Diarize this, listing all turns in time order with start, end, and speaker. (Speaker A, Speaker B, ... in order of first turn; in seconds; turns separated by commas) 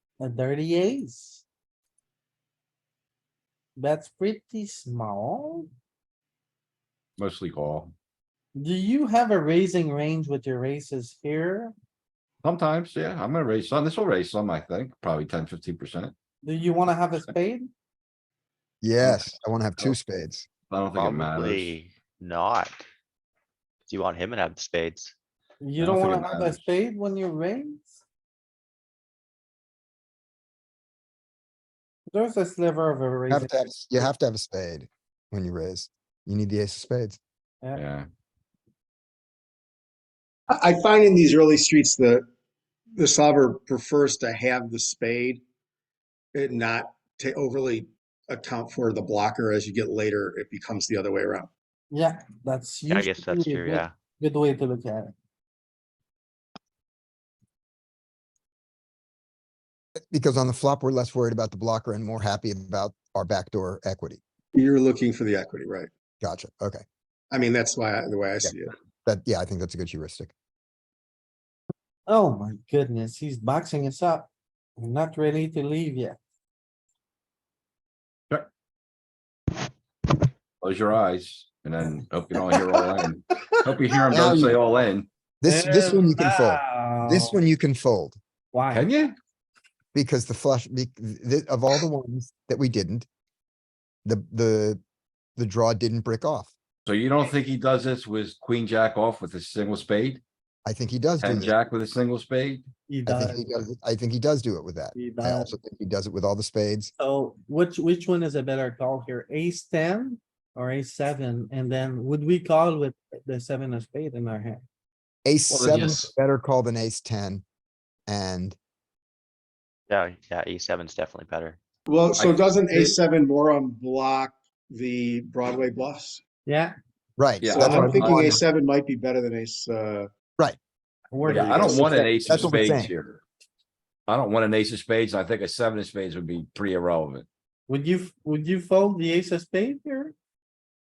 Speaker A: 0.2-1.4, Speaker A: 3.8-5.7, Speaker B: 7.2-7.9, Speaker A: 8.5-11.8, Speaker B: 12.4-16.1, Speaker A: 16.4-17.7, Speaker C: 18.8-20.5, Speaker B: 19.0-19.9, Speaker B: 20.7-21.8, Speaker D: 20.9-22.8, Speaker D: 23.9-25.1, Speaker A: 25.6-28.0, Speaker B: 25.8-26.6, Speaker A: 32.1-34.0, Speaker C: 33.3-37.2, Speaker B: 37.8-38.1, Speaker E: 40.5-42.2, Speaker E: 42.9-45.4, Speaker E: 46.3-51.5, Speaker A: 51.9-55.1, Speaker D: 52.9-54.0, Speaker C: 60.1-64.2, Speaker E: 64.5-65.9, Speaker C: 66.2-66.8, Speaker E: 67.3-68.7, Speaker C: 69.0-70.3, Speaker A: 72.1-76.2, Speaker B: 80.6-85.1, Speaker A: 82.5-83.0, Speaker C: 84.1-84.6, Speaker C: 85.4-88.2, Speaker A: 85.4-87.4, Speaker A: 88.5-88.9, Speaker B: 88.7-89.1, Speaker C: 89.9-93.1, Speaker C: 94.0-94.8, Speaker C: 95.4-96.5, Speaker B: 96.8-100.2, Speaker C: 100.7-101.5, Speaker B: 101.2-102.7, Speaker A: 102.9-103.5, Speaker C: 103.1-106.9, Speaker A: 104.9-105.5, Speaker A: 107.0-114.6, Speaker C: 115.2-117.4, Speaker B: 115.5-116.1, Speaker C: 118.1-118.6, Speaker D: 119.9-121.6, Speaker E: 121.9-126.2, Speaker B: 122.2-123.0, Speaker A: 126.4-126.7, Speaker C: 127.2-128.4, Speaker B: 127.4-128.3, Speaker E: 127.5-130.1, Speaker A: 131.1-132.8, Speaker B: 131.2-133.2, Speaker E: 131.3-131.8, Speaker C: 132.3-132.9, Speaker B: 134.1-137.3, Speaker A: 137.7-140.1